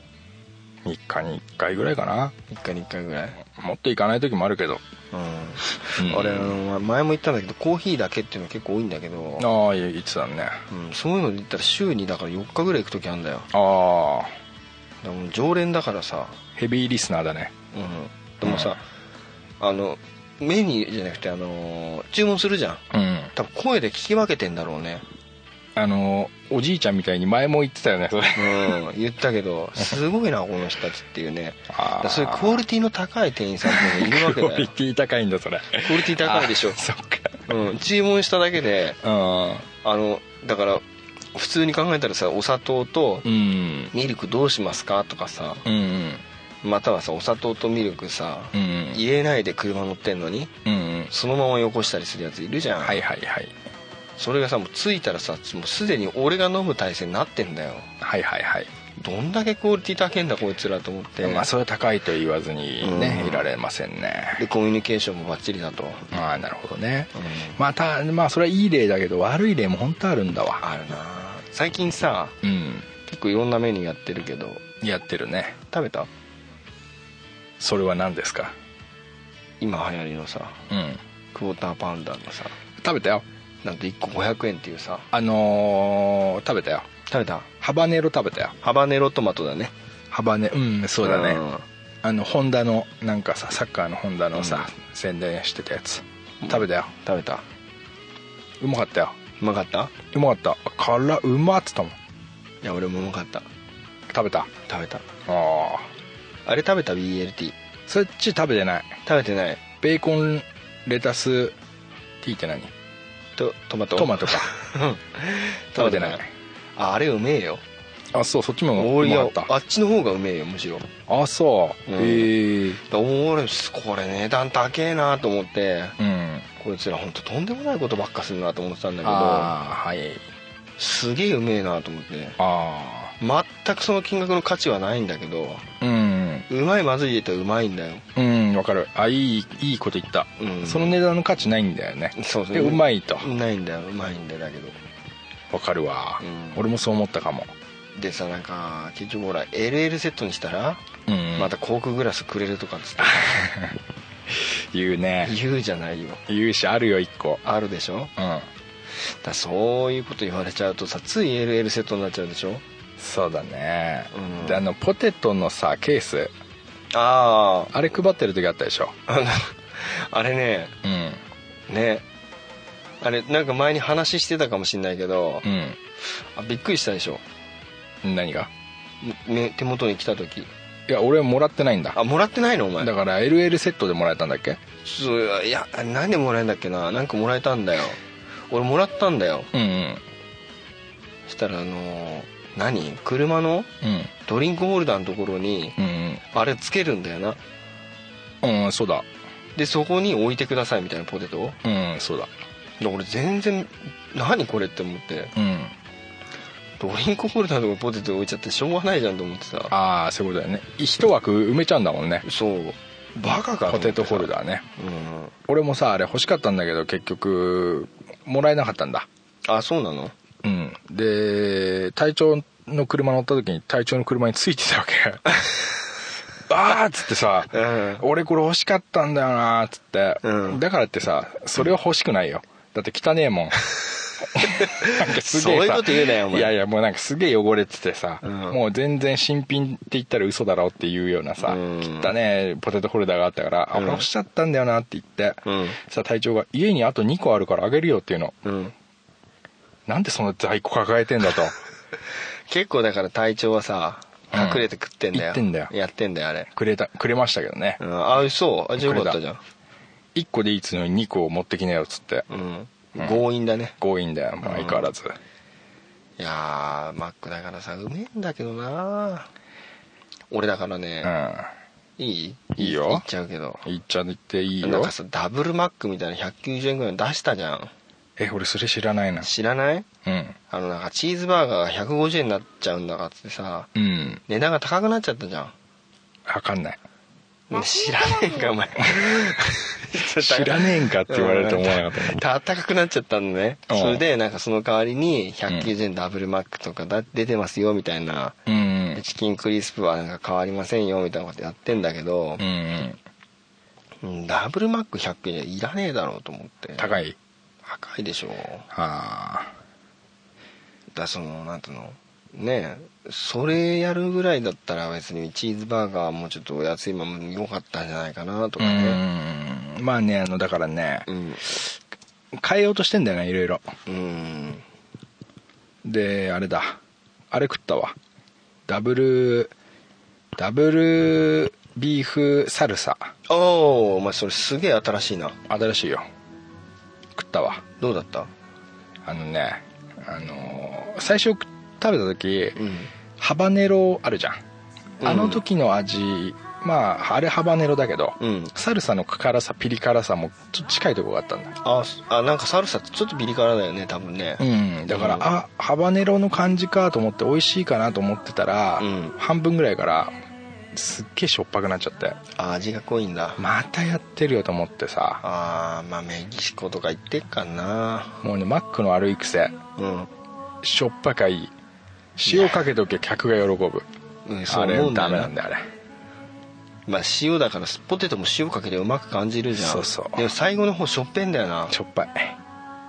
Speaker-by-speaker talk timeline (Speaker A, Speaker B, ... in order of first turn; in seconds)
Speaker A: 0.8-2.3, 3.4-4.8, 5.9-6.5, 9.4-10.6, 13.5-14.3, 16.6-17.5, 18.4-18.8, 22.9-23.3, 25.8-28.8, 31.7-32.6, 33.6-37.4, 39.0-39.7, 43.2-43.9, 45.6-46.2, 48.5-49.0, 50.6-51.1, 52.8-53.5, 58.0-58.7, 61.2-64.4, 66.1-70.6, 72.4-72.9, 74.8-75.6, 77.6-78.5, 80.7-81.0, 82.8-83.2, 85.1-86.9, 87.6-88.5, 90.1-91.4, 92.0-96.9, 98.6-99.2, 100.1-102.0, 104.1-104.5, 105.2-105.9, 107.9-109.0, 109.8-111.5, 112.2-112.7, 114.0-114.5, 115.8-116.3, 118.1-119.5, 121.1-122.8, 126.0-126.5, 129.0-130.2, 132.4-133.1, 135.8-136.5, 138.2-143.3, 145.5-147.5, 151.1-151.5, 153.0-155.3, 156.3-157.4, 158.2-158.5, 163.0-166.3, 167.7-168.9, 170.8-171.2, 175.4-175.8, 178.0-178.5, 180.9-182.0, 182.8-184.6, 189.5-190.0, 193.8-194.1, 195.8-196.2, 198.4-199.1, 201.6-202.3, 205.3-205.7, 209.7-212.2, 213.7-214.7, 215.5-219.1, 220.4-225.2, 226.5-233.6, 234.3-248.4, 249.9-251.6, 254.3-255.7, 256.5-257.8, 258.8-259.2, 260.1-262.2, 262.9-263.2, 263.8-265.1, 271.0-271.5, 272.6-273.0, 273.6-274.9, 278.2-279.3, 280.0-280.4, 283.7-284.2, 286.2-286.8, 288.9-289.3, 290.0-292.2, 293.7-294.0, 298.5-299.0, 302.4-303.0, 306.8-307.1, 308.7-309.5, 318.6-321.8, 322.3-323.6, 325.8-326.8, 327.3-327.9, 328.7-329.5, 330.4-333.1, 335.5-336.1, 337.1-337.6, 339.0-342.6, 343.2-344.4, 345.0-351.5, 354.4-360.1, 360.7-362.2, 363.4-365.2, 368.2-369.6, 370.6-371.5, 372.2-373.9, 374.5-375.6, 379.6-380.2, 381.7-382.4
Speaker B: 2.5-3.4, 5.1-9.5, 10.7-13.5, 15.0-16.4, 17.7-18.8, 19.6-25.0, 28.4-34.7, 35.8-36.8, 37.5-39.0, 39.8-40.8, 41.3-43.3, 43.9-45.6, 46.6-50.5, 51.1-53.0, 54.2-57.9, 59.0-61.5, 62.8-63.5, 64.4-66.1, 67.1-67.6, 70.6-72.4, 73.0-74.6, 75.7-76.1, 79.6-80.6, 81.3-82.5, 83.6-85.1, 87.1-87.5, 88.6-89.7, 91.0-91.6, 94.3-94.7, 96.4-97.4, 99.4-99.9, 102.6-103.4, 104.7-105.0, 106.5-107.5, 109.0-109.6, 113.4-116.2, 116.8-117.6, 118.8-120.9, 121.9-126.0, 126.6-129.5, 130.8-132.4, 133.2-135.6, 136.5-138.0, 140.4-141.0, 142.1-144.8, 146.2-146.6, 147.9-150.8, 151.3-153.5, 155.2-156.2, 157.4-158.1, 159.0-162.6, 164.1-164.7, 166.9-167.7, 169.1-170.8, 171.7-172.0, 173.0-175.4, 176.3-177.2, 179.0-180.5, 181.9-182.9, 184.8-189.5, 191.3-193.7, 194.2-195.8, 196.3-197.4, 199.6-201.6, 202.8-205.3, 206.8-209.7, 212.2-215.3, 219.4-220.1, 227.5-228.0, 230.2-230.6, 234.4-236.5, 238.2-238.6, 241.4-242.1, 243.7-244.1, 245.4-245.8, 248.4-248.7, 252.5-256.5, 257.8-259.4, 262.3-263.8, 264.4-264.9, 266.2-269.3, 270.3-271.1, 272.0-273.6, 274.6-277.7, 279.2-279.9, 280.5-283.7, 284.3-285.5, 287.5-298.4, 298.9-302.4, 304.0-306.9, 307.6-308.6, 310.9-319.0, 321.1-321.4, 323.9-324.6, 333.3-335.4, 337.8-338.3, 342.6-342.9, 345.0-345.4, 348.2-348.5, 351.6-355.3, 358.8-359.1, 362.3-363.4, 365.2-368.2, 369.8-370.1, 372.2-372.6, 374.2-375.3, 376.9-381.8